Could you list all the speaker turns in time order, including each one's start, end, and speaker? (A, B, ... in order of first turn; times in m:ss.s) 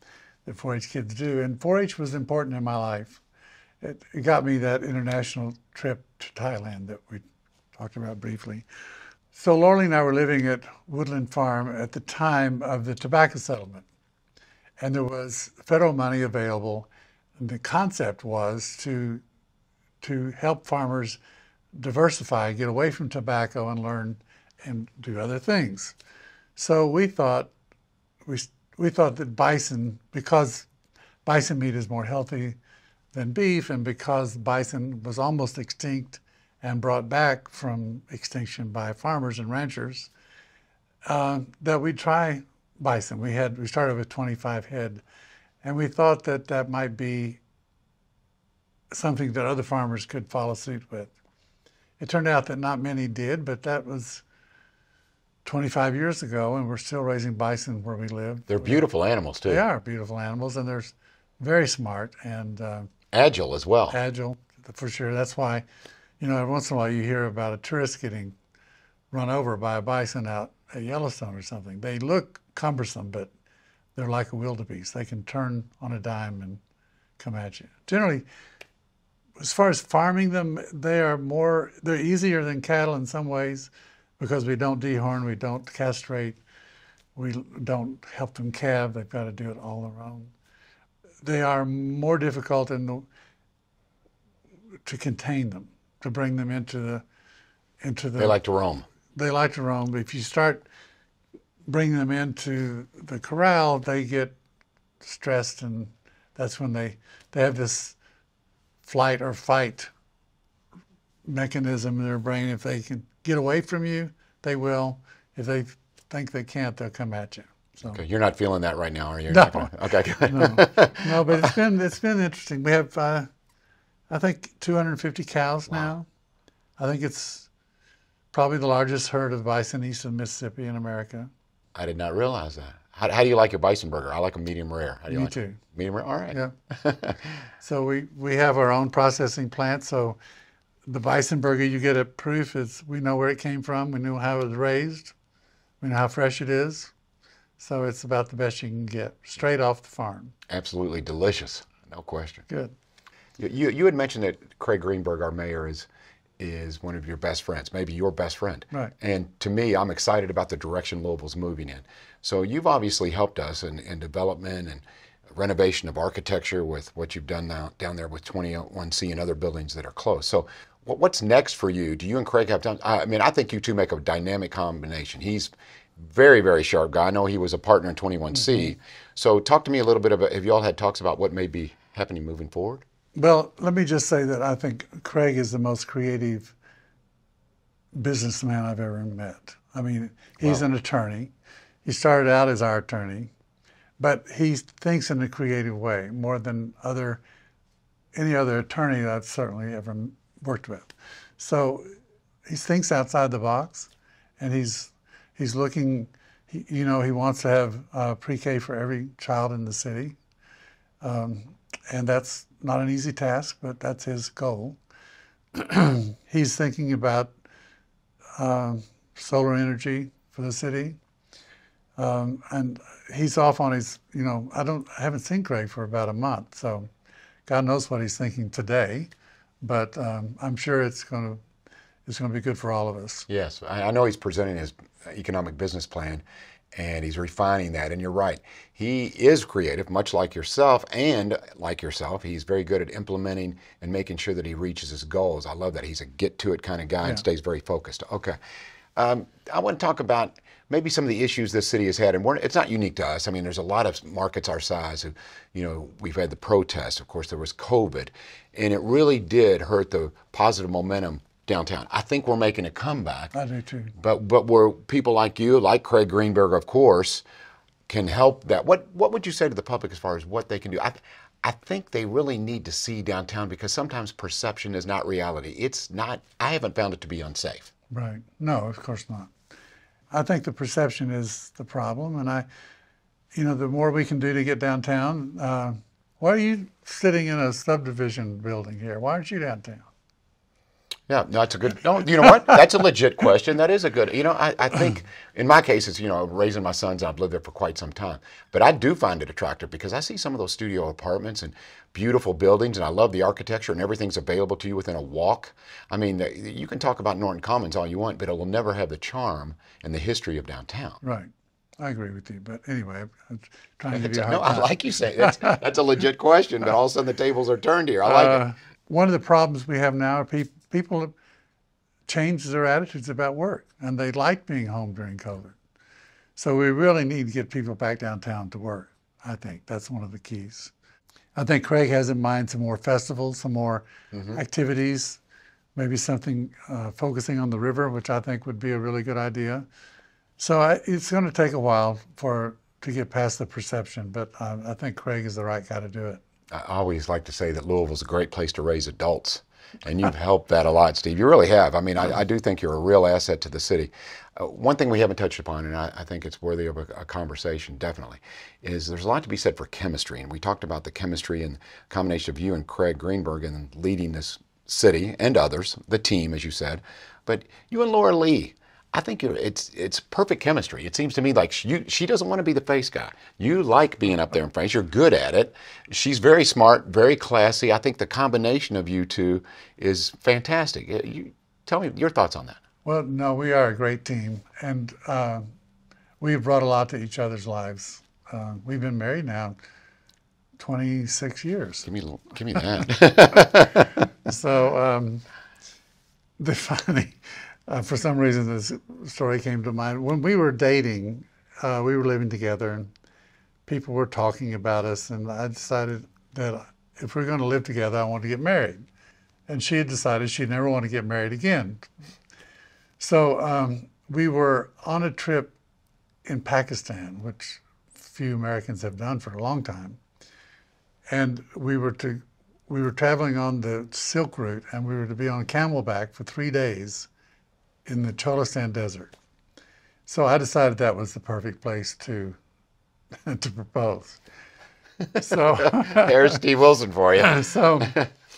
0:00.4-0:03.2 A
0:03.8-0:07.2 A
0:07.8-0:08.6 A
0:09.3-0:13.8 A
0:14.8-0:19.2 A
0:20.0-0:21.2 A
0:21.7-0:26.0 A
0:26.6-0:27.5 A
0:28.2-0:30.7 A
0:31.2-0:32.6 A
0:33.1-0:40.1 A
0:41.0-0:45.0 A
0:45.6-0:47.4 A
0:48.9-0:51.1 A
0:52.0-0:54.2 A
0:55.4-0:58.8 A
0:58.5-0:59.6 B
0:59.4-1:02.9 A
1:03.1-1:04.0 B
1:03.9-1:05.6 A
1:06.2-1:08.3 A
1:09.1-1:13.3 A
1:14.0-1:16.6 A
1:17.2-1:18.2 A
1:19.4-1:26.4 A
1:27.2-1:30.3 A
1:31.2-1:33.1 A
1:34.8-1:37.0 A
1:37.8-1:38.4 A
1:38.2-1:38.8 B
1:39.1-1:40.6 A
1:41.7-1:44.4 A
1:45.0-1:48.0 A
1:48.8-1:49.9 A
1:51.2-1:58.0 A
1:57.8-2:01.5 B
1:59.3-1:59.7 A
2:00.2-2:03.3 A
2:04.1-2:06.0 A
2:06.8-2:07.5 A
2:08.3-2:11.3 A
2:11.7-2:17.4 B
2:15.1-2:15.6 A
2:17.6-2:20.2 A
2:20.9-2:25.1 A
2:25.8-2:26.9 A
2:27.6-2:30.3 A
2:30.5-2:32.4 B
2:32.5-2:32.7 A
2:33.4-2:35.9 B
2:36.4-3:02.8 B
3:03.2-3:06.5 A
3:07.9-3:11.3 A
3:11.8-3:13.3 A
3:14.0-3:17.2 A
3:18.1-3:21.9 A
3:22.5-3:30.2 A
3:31.0-3:34.8 A
3:35.5-3:37.3 A
3:38.4-3:41.0 A
3:42.0-3:46.9 A
3:47.5-3:49.1 A
3:49.6-3:51.4 A
3:52.1-3:53.3 A
3:53.3-3:56.2 B
3:56.7-4:08.4 B
4:09.0-4:23.3 B
4:23.3-4:23.9 A
4:24.0-4:27.2 B
4:27.9-4:37.7 B
4:37.9-4:39.3 A
4:40.1-4:42.4 A
4:43.3-4:49.8 A
4:51.1-5:11.0 B
5:11.0-5:15.6 A
5:13.9-5:18.4 B
5:18.0-5:21.1 A
5:22.1-5:25.6 A
5:26.4-5:30.7 A
5:31.3-5:35.2 A
5:35.8-5:39.7 A
5:40.4-5:46.2 A
5:46.5-6:22.6 B
6:22.8-6:25.5 A
6:26.2-6:29.6 A
6:30.6-6:31.9 A
6:31.8-6:33.9 B
6:33.4-6:33.7 A
6:34.2-6:35.2 A
6:36.4-6:42.9 A
6:43.6-6:48.8 A
6:49.5-6:51.9 A
6:53.0-6:55.6 A
6:56.2-7:00.0 A
7:01.1-7:07.1 A
7:07.8-7:09.1 A
7:10.1-7:12.4 A
7:13.2-7:14.2 A
7:15.1-7:18.1 B
7:15.2-7:16.4 A
7:17.2-7:18.0 A